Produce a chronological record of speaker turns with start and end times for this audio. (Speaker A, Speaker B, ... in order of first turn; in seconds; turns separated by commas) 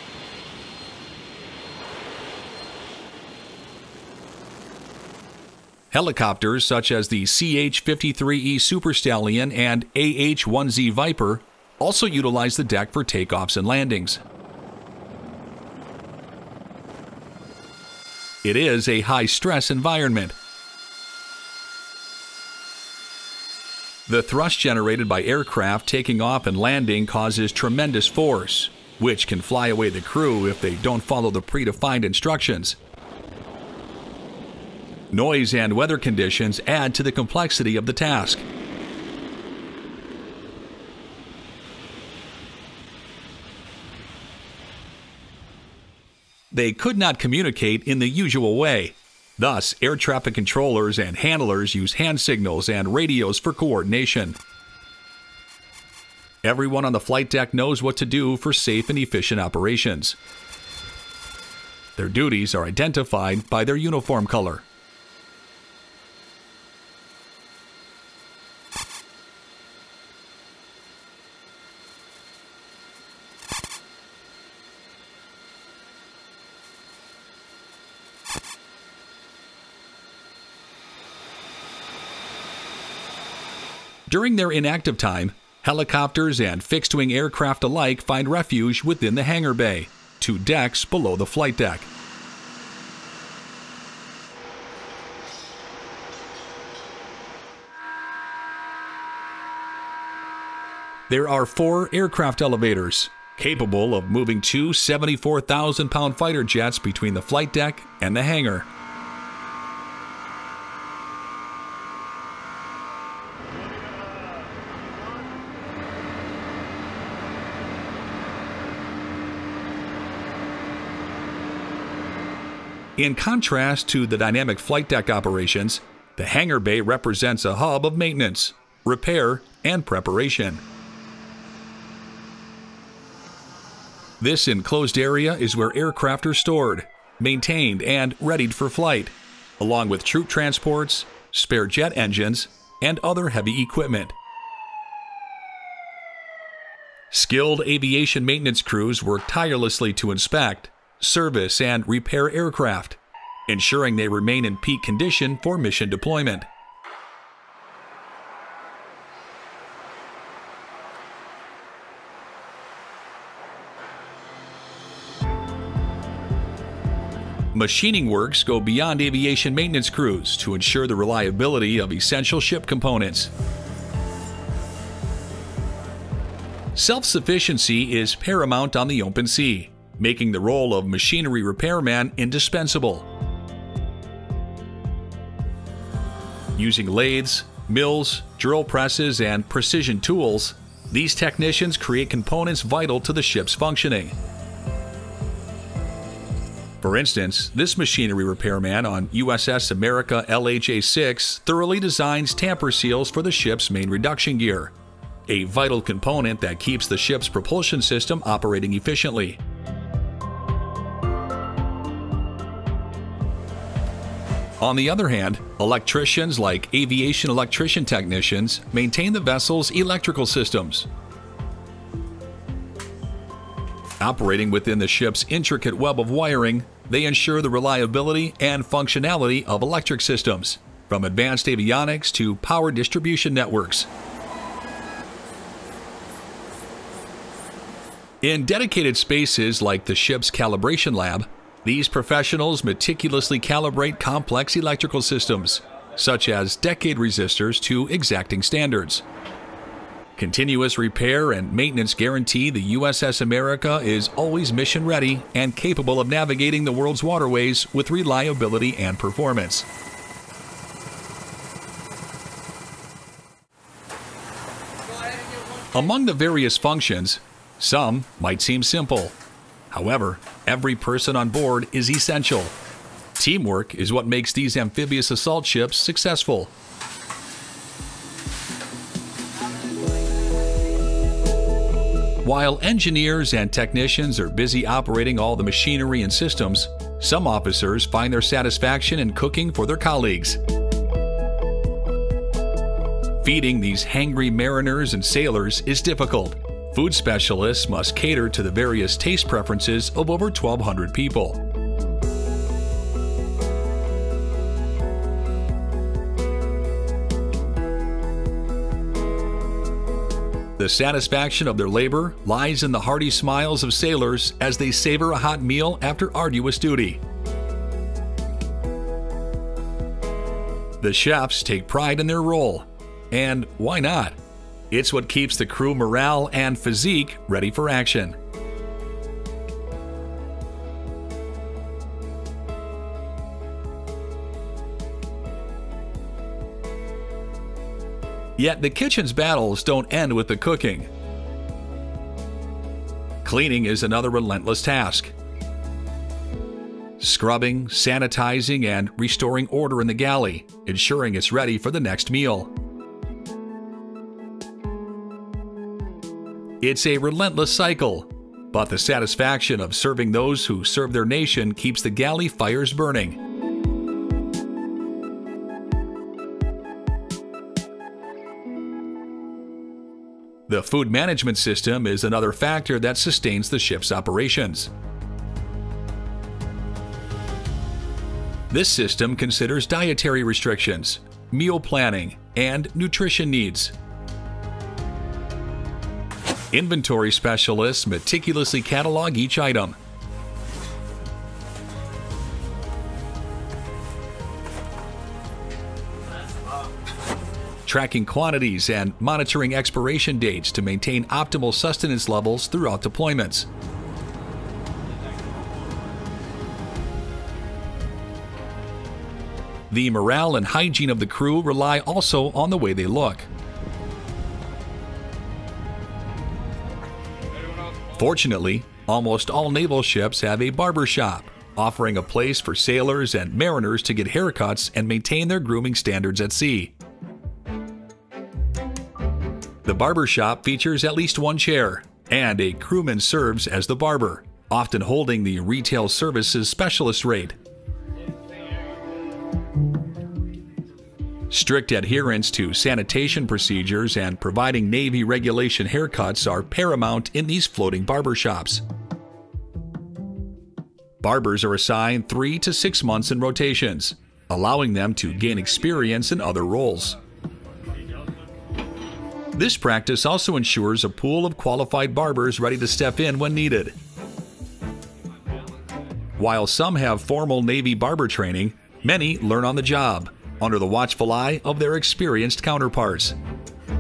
Speaker A: 5.9-14.2, Speaker A: 18.4-20.4, Speaker A: 24.1-32.8, Speaker A: 35.1-38.5, Speaker A: 46.5-54.4, Speaker A: 56.4-60.2, Speaker A: 62.0-64.7, Speaker A: 84.1-91.9, Speaker A: 101.1-108.7, Speaker A: 123.0-130.6, Speaker A: 134.2-144.2, Speaker A: 147.1-156.5, Speaker A: 167.5-173.3, Speaker A: 176.8-183.1, Speaker A: 186.6-194.2, Speaker A: 196.8-204.7, Speaker A: 205.3-209.4, Speaker A: 214.6-220.9, Speaker A: 224.0-233.9, Speaker A: 238.2-249.0, Speaker A: 250.2-259.7, Speaker A: 265.4-269.2, Speaker A: 269.7-272.6, Speaker A: 273.2-276.5, Speaker A: 282.2-290.4, Speaker A: 293.2-301.4, Speaker A: 310.6-317.0, Speaker A: 320.8-324.2, Speaker A: 324.7-328.2, Speaker A: 338.4-340.9, Speaker A: 343.2-345.1, Speaker A: 347.0-352.5, Speaker A: 356.6-363.2, Speaker A: 370.5-374.7, Speaker A: 378.5-383.7, Speaker A: 386.5-389.8, Speaker A: 397.7-403.5, Speaker A: 409.7-413.3, Speaker A: 417.9-426.7, Speaker A: 429.6-437.4, Speaker A: 441.3-448.6, Speaker A: 451.0-457.0, Speaker A: 459.4-463.8, Speaker A: 466.2-473.2